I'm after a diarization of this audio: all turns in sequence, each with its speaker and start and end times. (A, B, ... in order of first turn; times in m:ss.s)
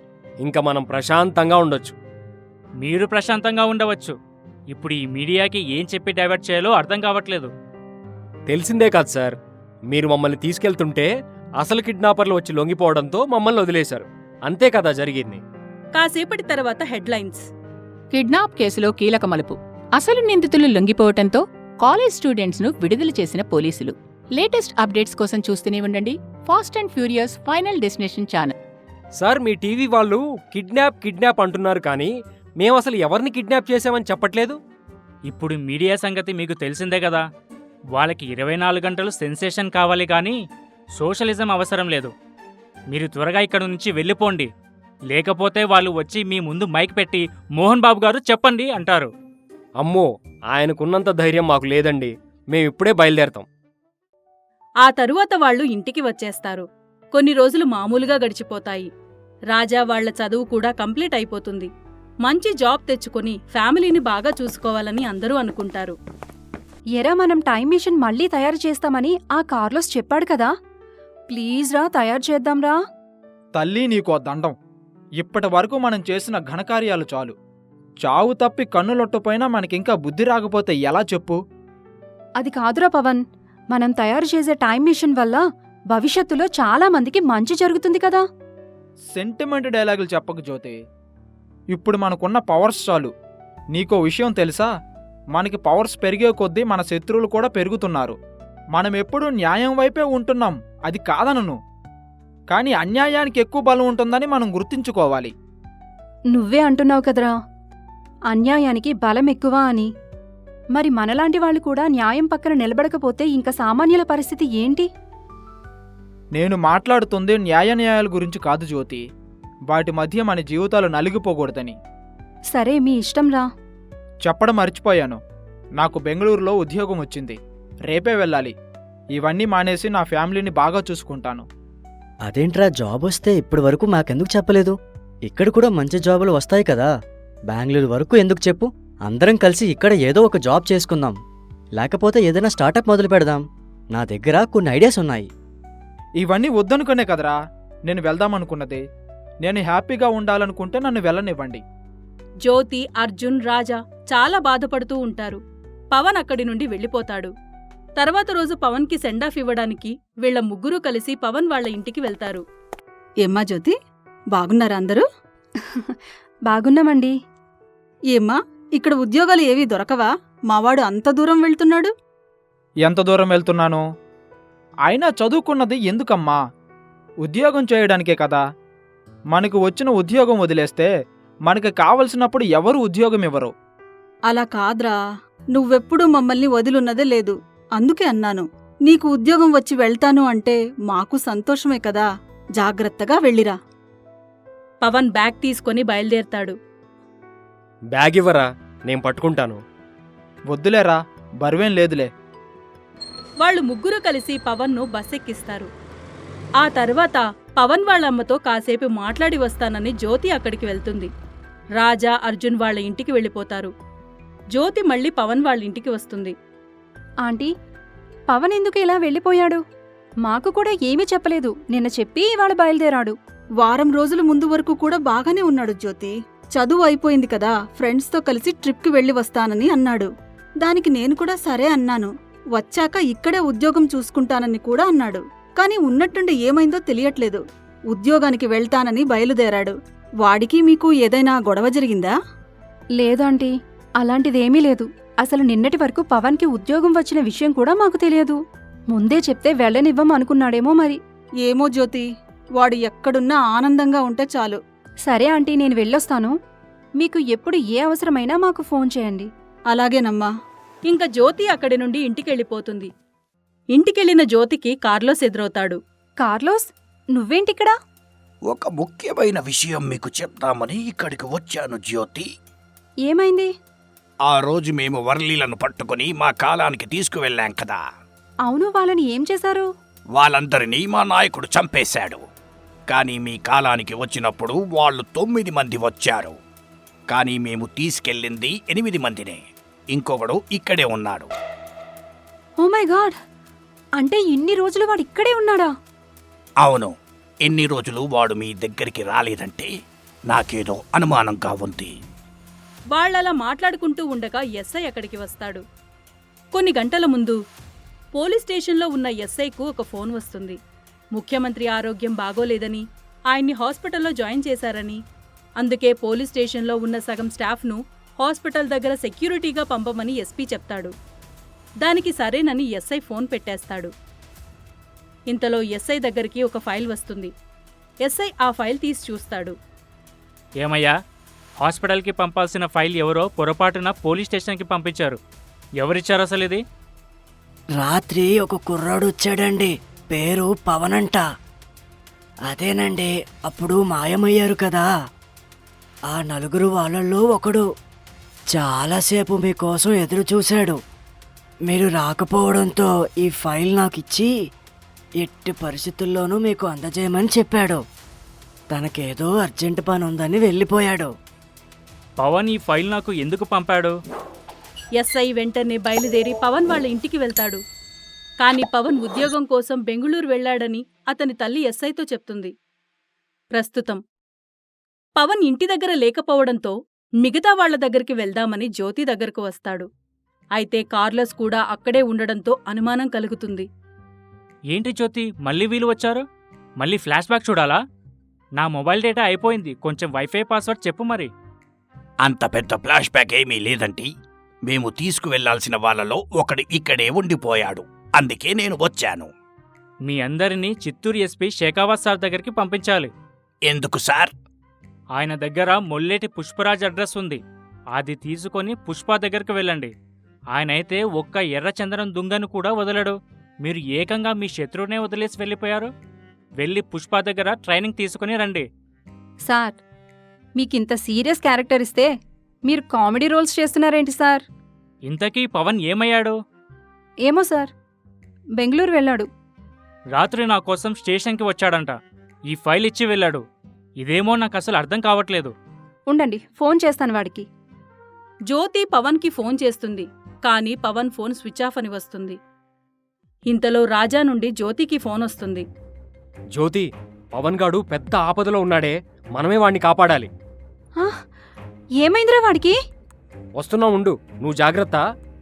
0:00.4-0:02.0 A
0:02.8-0:04.1 B
0:04.7-0:07.5 B
0:08.5-0:09.3 A
0:09.9-0:15.4 A
0:16.0-0:17.4 C
0:18.1-0:28.5 D
0:29.2-0:34.6 A
0:35.3-0:37.2 B
0:37.9-0:40.4 B
0:41.0-0:42.1 B
0:42.9-0:44.5 B
0:45.1-0:49.1 B
0:49.8-0:53.4 A
0:54.8-0:58.9 C
0:59.5-1:01.7 C
1:02.2-1:06.0 C
1:07.0-1:10.5 E
1:11.3-1:12.8 E
1:13.6-1:14.6 F
1:15.2-1:17.3 F
1:18.0-1:21.4 F
1:22.4-1:23.2 E
1:23.7-1:28.2 E
1:29.1-1:30.8 F
1:31.7-1:33.1 F
1:33.7-1:34.7 F
1:35.3-1:38.2 F
1:38.7-1:41.6 F
1:42.5-1:45.3 F
1:46.3-1:47.3 E
1:48.3-1:49.9 E
1:50.7-1:54.9 E
1:56.4-1:59.0 F
1:59.7-2:01.8 F
2:02.5-2:03.5 E
2:04.2-2:05.2 F
2:05.8-2:07.4 F
2:07.9-2:08.5 F
2:09.2-2:11.4 F
2:12.2-2:14.8 G
2:15.3-2:16.9 G
2:17.5-2:21.2 G
2:21.8-2:25.3 G
2:26.2-2:27.3 F
2:27.9-2:28.8 F
2:29.4-2:31.6 F
2:32.4-2:35.4 C
2:35.9-2:37.3 C
2:38.0-2:42.4 C
2:43.2-2:43.7 H
2:44.3-2:45.0 H
2:46.5-2:47.1 E
2:48.1-2:51.9 H
2:52.8-2:53.8 F
2:54.9-2:56.4 F
2:57.2-2:58.4 F
2:59.3-3:00.9 F
3:01.5-3:03.5 F
3:04.3-3:05.0 H
3:05.5-3:12.1 H
3:12.6-3:13.5 H
3:14.8-3:16.5 C
3:17.9-3:19.6 A
3:20.5-3:22.1 F
3:23.4-3:25.7 C
3:26.6-3:31.1 C
3:31.8-3:33.7 C
3:34.5-3:36.3 C
3:37.2-3:37.5 E
3:38.3-3:39.6 E
3:40.2-3:43.1 E
3:43.6-3:50.1 H
3:50.6-4:02.1 H
4:03.0-4:08.4 E
4:08.9-4:11.0 E
4:11.5-4:12.0 H
4:12.6-4:14.6 H
4:15.1-4:16.3 E
4:17.0-4:19.3 E
4:19.7-4:20.3 H
4:20.9-4:22.9 C
4:23.7-4:25.8 C
4:26.2-4:27.7 E
4:28.5-4:32.3 I
4:33.0-4:33.5 E
4:34.2-4:37.8 I
4:38.4-4:39.7 E
4:40.1-4:42.2 I
4:42.9-4:46.4 I
4:47.1-4:49.4 I
4:49.9-4:51.3 I
4:52.6-4:53.2 E
4:54.0-4:55.7 E
4:56.6-4:56.9 I
4:57.4-4:59.7 I
5:00.3-5:01.9 I
5:02.9-5:05.6 C
5:06.5-5:07.4 C
5:08.1-5:10.6 C
5:11.1-5:15.0 C
5:15.6-5:20.9 C
5:21.8-5:23.9 C
5:25.3-5:27.3 C
5:28.0-5:29.5 C
5:30.6-5:30.9 B
5:31.6-5:35.2 B
5:35.8-5:36.6 B
5:37.8-5:41.2 J
5:42.5-5:44.9 J
5:46.1-5:47.6 J
5:48.5-5:50.8 J
5:51.7-5:54.3 J
5:55.2-5:57.8 J
5:58.7-6:01.1 J
6:02.2-6:03.9 B
6:05.0-6:07.6 C
6:08.4-6:12.5 C
6:13.5-6:14.0 C
6:15.2-6:19.9 C
6:20.6-6:23.7 C
6:24.7-6:26.2 B
6:26.8-6:27.8 B
6:28.6-6:31.3 B
6:32.2-6:34.1 I
6:34.7-6:39.3 I
6:40.0-6:43.1 B
6:43.7-6:44.3 I
6:45.2-6:47.4 B
6:47.9-6:49.9 B
6:50.5-6:55.9 B
6:56.6-6:58.6 B
6:59.4-6:59.8 E
7:00.6-7:02.1 E
7:02.7-7:04.4 E
7:05.1-7:06.4 B
7:07.2-7:07.7 E
7:08.6-7:09.3 E
7:10.1-7:11.9 B
7:12.5-7:13.4 B
7:14.0-7:15.5 B
7:16.1-7:17.4 E
7:18.5-7:22.4 C
7:23.5-7:25.6 C
7:26.5-7:30.3 A
7:32.0-7:32.7 E
7:33.6-7:35.0 A